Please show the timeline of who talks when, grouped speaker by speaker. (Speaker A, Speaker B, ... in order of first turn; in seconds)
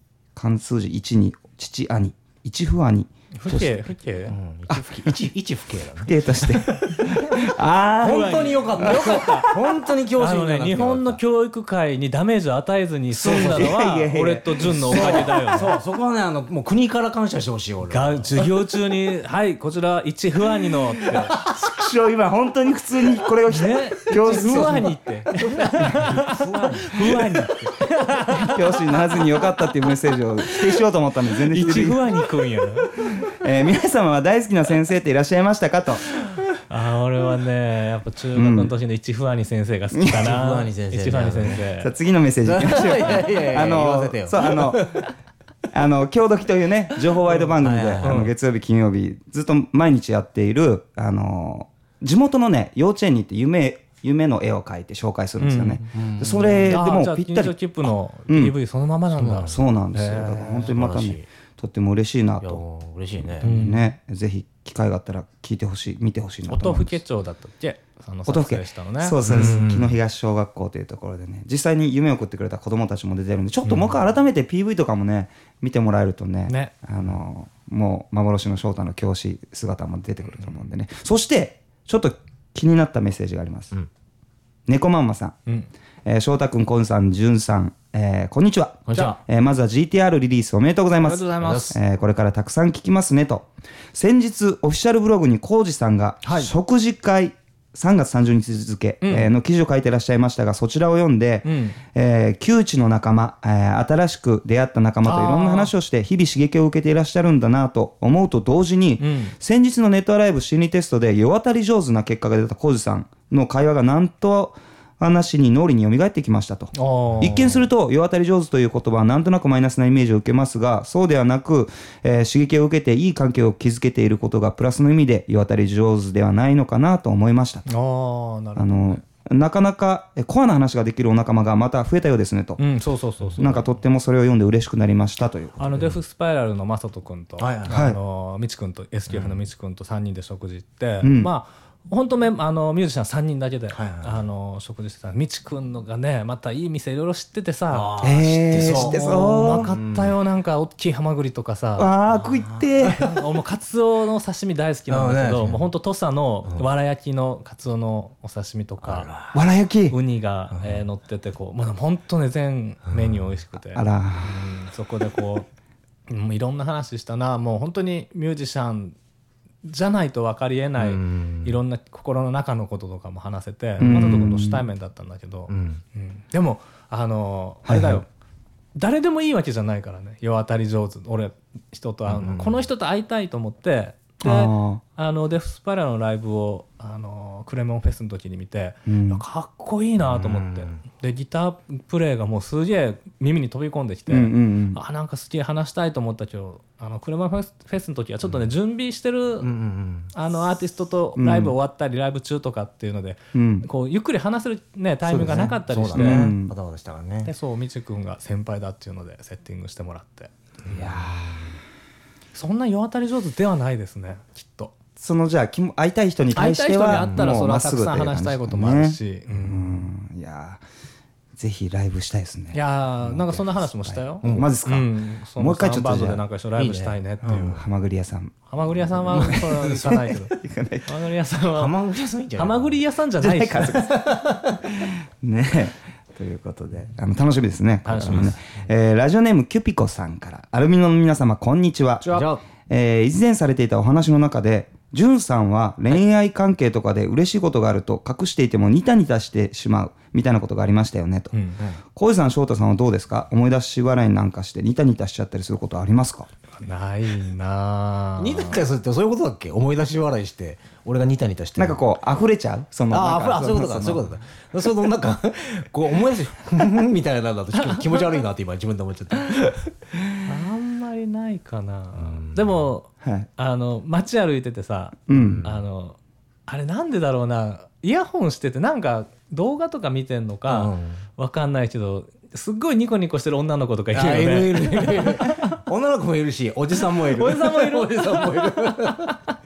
Speaker A: 0.4-3.8, 4.7-5.1, 6.0-9.6, 13.2-15.3, 21.5-24.9, 28.4-32.1, 33.1-36.0, 38.4-38.7, 39.9-40.3, 41.8-45.1, 45.7-58.5, 59.5-62.6, 63.2-67.0, 68.3-83.7, 84.7-85.4, 86.0-127.7, 128.6-132.6, 133.4-135.9, 137.7-138.0, 141.0-141.3, 148.0-149.7, 151.8-153.1, 159.3-160.0, 163.7-164.4, 173.8-174.6, 177.7-178.1, 184.2-184.8, 188.9-189.2, 194.1-194.8, 201.2-201.6, 203.3-203.7, 205.2-206.5, 210.7-211.4, 215.0-220.6, 221.4-226.2, 227.5-230.9, 233.2-234.1, 234.7-242.1, 242.7-251.3, 251.9-256.3, 261.6-264.0, 273.0-273.3, 275.1-275.5
Speaker B: 3.4-4.4, 8.1-9.6, 10.2-15.8, 17.9-21.4, 23.5-29.4, 31.5-33.0, 36.6-41.9, 48.0-48.3, 55.4-55.9, 56.7-60.7, 63.4-63.9, 66.5-69.6, 73.7-73.9, 76.5-76.7, 91.0-91.8, 96.2-96.5, 99.0-99.3, 101.4-101.8, 105.0-105.7, 109.0-109.4, 116.8-117.6, 127.7-129.0, 132.6-133.7, 135.6-151.9, 152.9-159.1, 159.9-165.5, 166.1-169.0, 169.6-178.1, 178.8-199.5, 200.1-206.3, 207.2-210.3, 212.3-214.7, 216.3-219.9, 222.5-227.6, 228.5-231.8, 232.4-233.9, 237.8-238.4, 251.3-251.6, 256.5-258.6, 270.2-285.6, 287.1-289.1
Speaker C: 4.3-7.4, 8.0-11.2, 13.2-13.8, 14.7-18.4, 21.1-21.7, 24.1-27.3, 40.1-41.6, 42.5-45.1, 47.6-48.2, 55.9-56.8, 59.1-59.6, 60.6-61.3, 62.4-63.5, 69.2-70.0, 88.9-89.2, 91.4-91.7, 137.4-137.8, 139.1-139.4, 143.7-144.2, 147.7-150.2, 152.1-153.2, 154.9-155.6, 158.8-159.4, 160.5-160.8, 162.9-163.2, 170.8-171.6, 175.5-175.8, 182.1-182.6, 190.0-190.8, 199.4-200.1, 205.1-207.3, 210.6-211.5, 224.2-224.5, 226.6-227.6, 229.1-230.1, 231.6-232.8, 233.7-234.6, 242.1-242.4, 258.2-261.9, 262.9-269.6, 272.0-272.6, 275.1-275.6, 280.5-281.0, 283.9-289.2